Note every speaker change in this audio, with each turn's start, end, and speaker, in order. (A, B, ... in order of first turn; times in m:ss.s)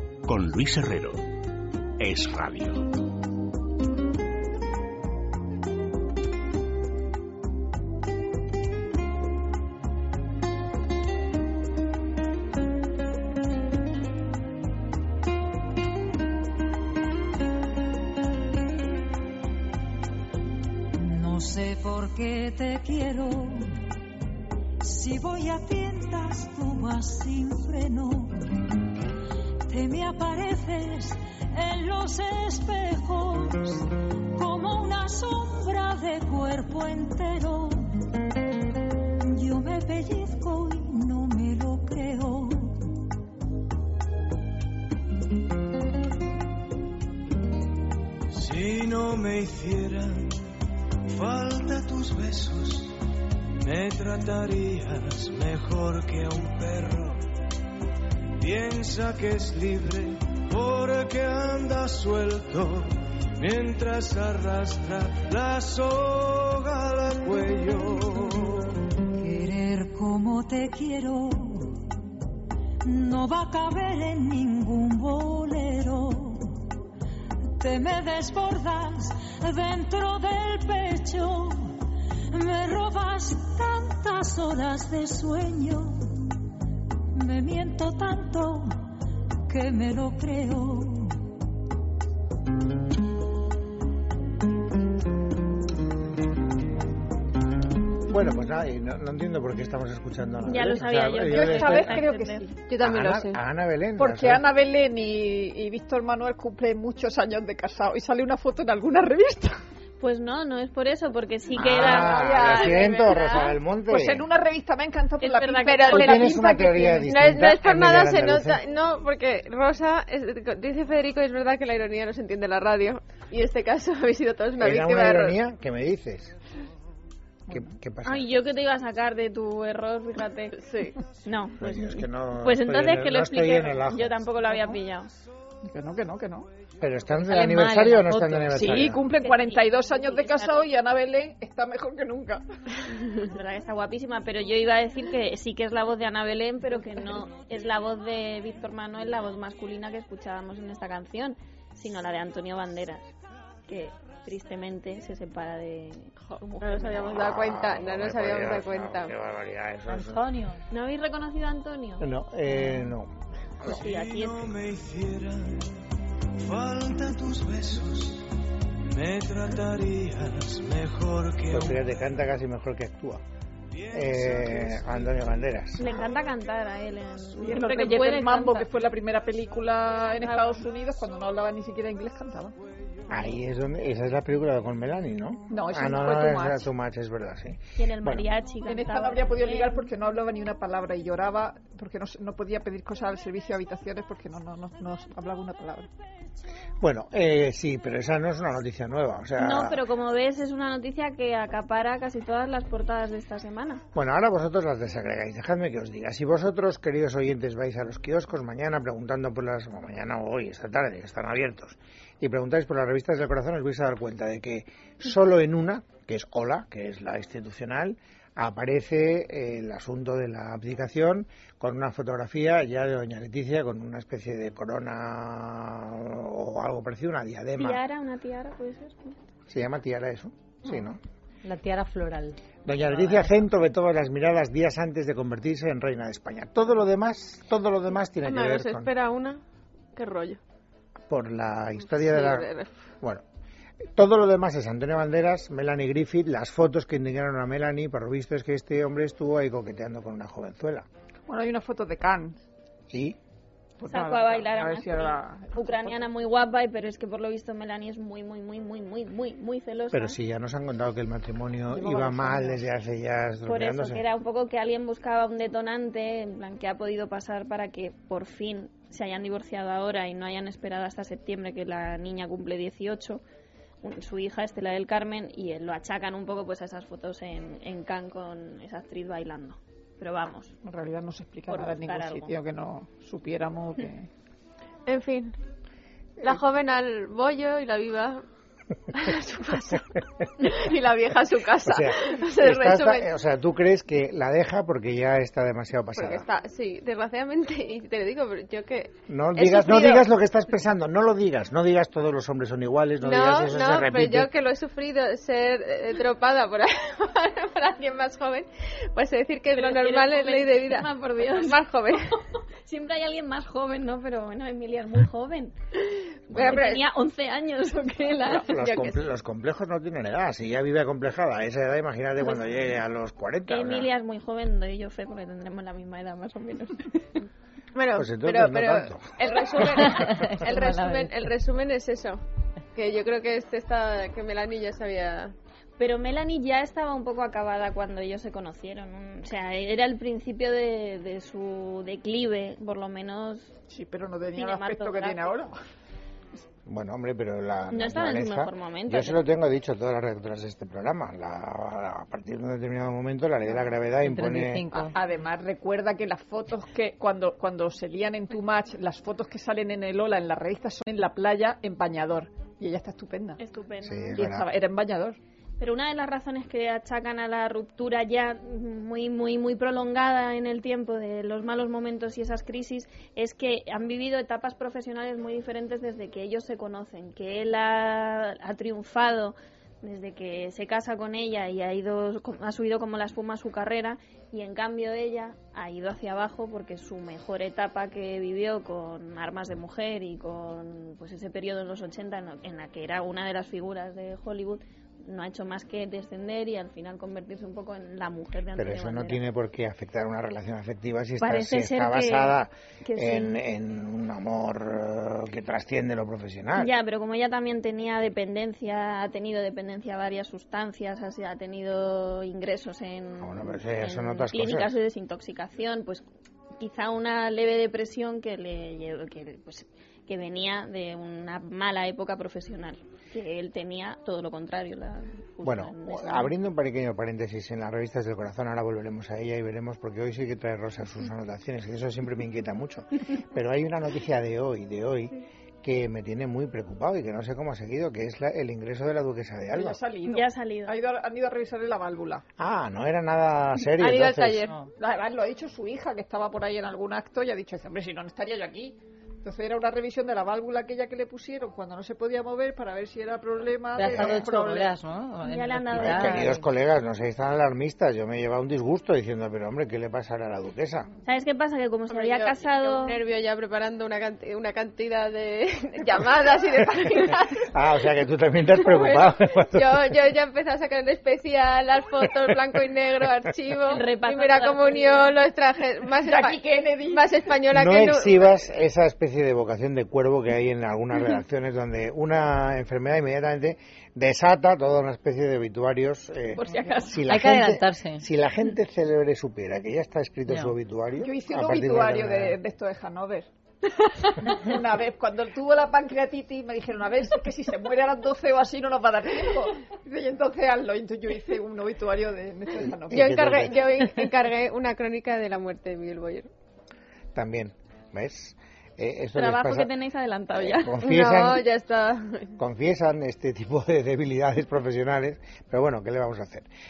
0:00.2-0:01.2 A
0:02.0-0:02.8 A
0:20.9-0:23.7 B
0:24.8-0:28.5 B
0:29.7-0:38.2 B
0:39.2-0:42.9 B
0:48.3-0:50.4 C
0:51.1-0:53.0 C
0:53.6-0:57.2 C
0:58.4-1:08.8 C
1:09.2-1:11.8 B
1:12.8-1:16.6 B
1:17.6-1:21.7 B
1:22.3-1:26.4 B
1:27.1-1:28.8 B
1:29.5-1:31.2 B
1:38.0-1:42.0 D
1:40.4-1:42.6 E
1:41.2-1:42.4 F
1:42.7-1:43.4 G
1:42.8-1:44.4 D
1:44.0-1:49.6 F
1:50.0-1:53.1 E
1:51.5-1:54.2 D
1:51.8-1:53.5 G
1:52.1-1:53.0 F
1:53.9-1:57.1 F
1:55.2-1:56.4 E
1:55.7-1:56.2 G
1:55.9-1:58.6 D
1:57.0-2:05.4 G
2:04.6-2:06.3 D
2:07.5-2:07.7 F
2:07.5-2:08.3 D
2:08.0-2:10.6 E
2:10.6-2:11.0 G
2:11.2-2:15.1 E
2:11.6-2:14.2 D
2:15.6-2:16.5 F
2:16.8-2:19.0 D
2:17.2-2:18.9 H
2:18.5-2:22.4 F
2:19.2-2:20.6 E
2:23.1-2:33.1 E
2:33.7-2:36.7 E
2:36.3-2:39.1 G
2:36.8-2:40.3 D
2:39.9-2:40.6 H
2:40.7-2:42.1 E
2:42.0-2:43.1 D
2:43.6-2:45.8 C
2:43.6-2:44.5 E
2:46.3-2:48.2 C
2:48.9-2:51.9 C
2:51.5-2:53.2 D
2:53.7-2:55.2 C
2:53.9-2:56.1 D
2:55.8-2:58.7 E
2:57.4-3:02.5 F
3:00.2-3:00.6 E
3:03.1-3:08.3 D
3:05.5-3:06.7 F
3:07.8-3:09.9 E
3:08.6-3:15.9 F
3:16.8-3:19.8 D
3:19.4-3:23.8 E
3:23.9-3:47.8 D
3:47.6-3:49.2 E
3:49.5-3:51.0 D
3:51.4-3:53.3 H
3:52.6-3:58.9 D
3:58.2-3:59.4 G
4:00.0-4:00.4 G
4:01.1-4:02.5 D
4:01.9-4:02.8 G
4:03.9-4:10.9 D
4:11.3-4:12.4 F
4:12.9-4:13.2 D
4:13.8-4:16.0 F
4:13.9-4:20.2 E
4:19.9-4:24.0 D
4:21.7-4:22.6 F
4:23.4-4:33.2 E
4:33.8-4:40.5 E
4:40.6-4:44.1 F
4:41.5-4:42.3 E
4:44.9-4:45.4 G
4:46.2-4:48.2 G
4:48.9-4:53.1 G
4:51.6-4:56.2 D
4:56.0-5:00.1 G
4:59.1-5:04.3 D
5:03.0-5:12.2 G
5:09.5-5:11.6 E
5:12.6-5:15.5 E
5:16.3-5:16.9 G
5:16.3-5:16.8 D
5:16.4-5:18.5 E
5:18.2-5:23.9 D
5:18.5-5:19.0 G
5:23.5-5:27.2 E
5:27.7-5:32.2 G
5:27.9-5:29.9 D
5:29.5-5:29.8 F
5:29.9-5:31.3 H
5:32.7-5:35.3 G
5:35.8-5:43.5 E
5:43.7-5:45.6 F
5:44.4-5:45.2 E
5:46.6-5:54.8 D
5:47.7-5:49.2 E
5:54.0-5:54.9 H
5:54.7-6:03.4 F
6:03.4-6:04.2 E
6:03.8-6:04.5 D
6:04.1-6:05.2 F
6:05.6-6:39.2 E
6:38.6-6:46.7 D
6:41.2-6:43.3 E
6:46.6-6:56.0 E
6:53.2-6:54.8 D
6:56.6-7:06.3 E
7:05.4-7:19.8 D
7:19.5-7:22.2 F
7:20.1-7:20.8 E
7:22.4-7:24.4 D
7:23.7-7:24.5 G
7:24.8-7:34.7 F
7:33.7-7:36.4 H
7:33.9-7:34.2 D
7:35.2-7:36.4 E
7:35.8-7:40.9 D
7:41.0-7:43.0 E
7:41.9-7:47.5 G
7:46.7-7:47.1 F
7:47.5-7:49.9 D
7:48.6-7:58.4 G
7:53.7-7:55.1 E
7:56.0-7:57.1 F
7:57.5-8:12.4 D
8:06.4-8:07.0 F
8:07.0-8:08.0 H
8:10.3-8:10.5 H
8:11.0-8:23.4 F
8:22.9-8:23.9 D
8:22.9-8:26.3 G
8:27.1-8:29.7 D
8:29.1-8:30.7 E
8:30.3-8:31.4 D
8:30.8-8:32.4 G
8:32.4-8:36.5 D